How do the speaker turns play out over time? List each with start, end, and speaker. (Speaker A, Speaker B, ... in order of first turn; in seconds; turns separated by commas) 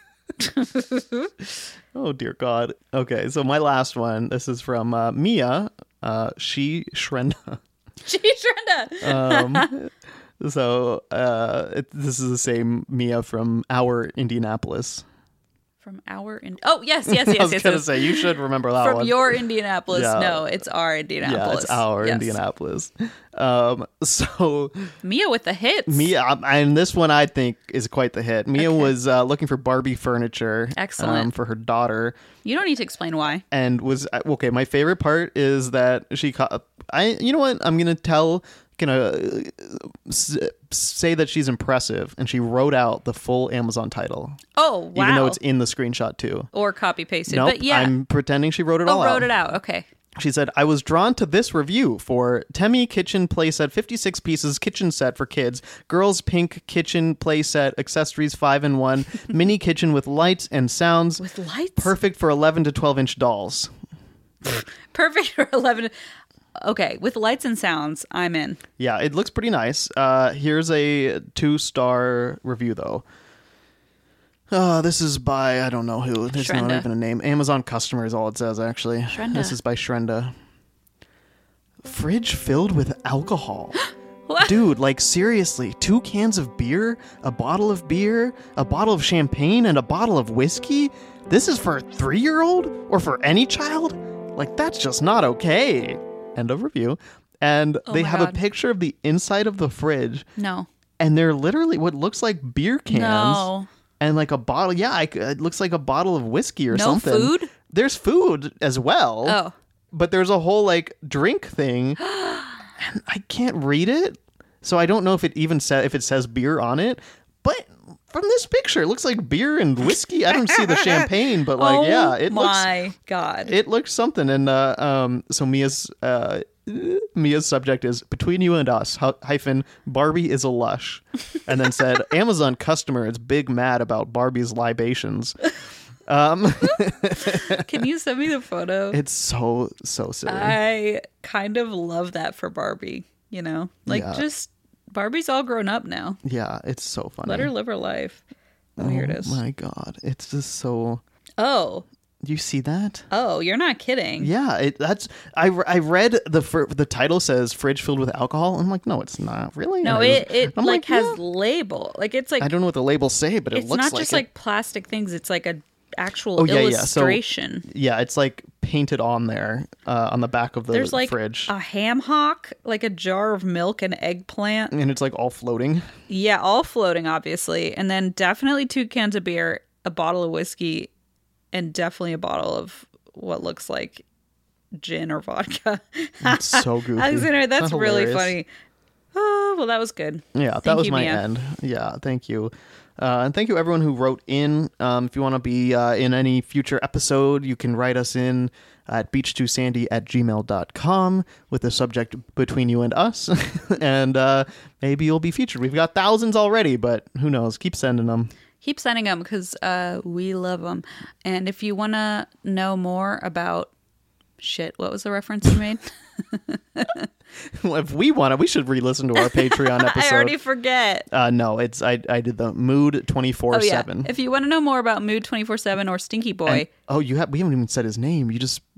Speaker A: 0.4-1.3, Speaker B: 1.9-7.6, Speaker A: 8.0-9.7, Speaker B: 9.0-15.0, Speaker A: 15.8-22.4, Speaker B: 17.1-20.6, Speaker B: 21.2-24.9, Speaker A: 25.0-26.1, Speaker B: 25.9-32.2, Speaker A: 30.7-31.3, Speaker A: 32.4-33.4, Speaker B: 33.5-44.4, Speaker A: 44.5-45.4, Speaker B: 44.9-46.5, Speaker A: 46.5-47.9, Speaker B: 47.3-49.3, Speaker A: 48.9-49.9, Speaker B: 50.1-61.2, Speaker A: 61.2-61.9, Speaker B: 61.8-63.7, Speaker A: 64.4-65.9, Speaker A: 66.6-68.6, Speaker B: 68.8-73.0, Speaker B: 74.5-80.3, Speaker A: 76.3-76.9, Speaker A: 79.1-79.5, Speaker B: 81.8-83.8, Speaker A: 84.3-84.6, Speaker B: 84.4-100.3, Speaker A: 97.9-98.4, Speaker A: 100.3-100.7, Speaker B: 101.0-109.4, Speaker A: 102.9-103.7, Speaker A: 106.7-107.5, Speaker A: 109.2-109.5, Speaker B: 109.9-112.0, Speaker A: 112.1-112.6, Speaker B: 112.8-122.7, Speaker A: 120.8-123.5, Speaker B: 123.4-135.5, Speaker B: 136.1-137.7, Speaker A: 137.2-139.0, Speaker B: 138.9-140.6, Speaker A: 140.2-146.2, Speaker B: 143.9-144.2, Speaker B: 146.2-147.5, Speaker A: 147.2-148.2, Speaker A: 148.8-149.4, Speaker B: 148.8-151.0, Speaker A: 151.4-151.8, Speaker B: 152.2-153.1, Speaker A: 153.1-154.3, Speaker B: 154.2-161.2, Speaker A: 159.8-162.5, Speaker B: 162.4-164.2, Speaker A: 163.5-167.7, Speaker B: 166.3-171.5, Speaker A: 170.7-174.7, Speaker B: 174.7-175.9, Speaker A: 176.1-180.9, Speaker A: 181.5-184.0, Speaker A: 184.8-188.5, Speaker B: 186.2-188.3, Speaker A: 189.1-191.2, Speaker B: 190.3-208.3, Speaker A: 208.6-213.7, Speaker A: 214.4-217.1, Speaker B: 217.5-220.3, Speaker A: 219.2-221.1, Speaker B: 221.1-224.1, Speaker A: 223.5-226.7, Speaker B: 226.5-228.6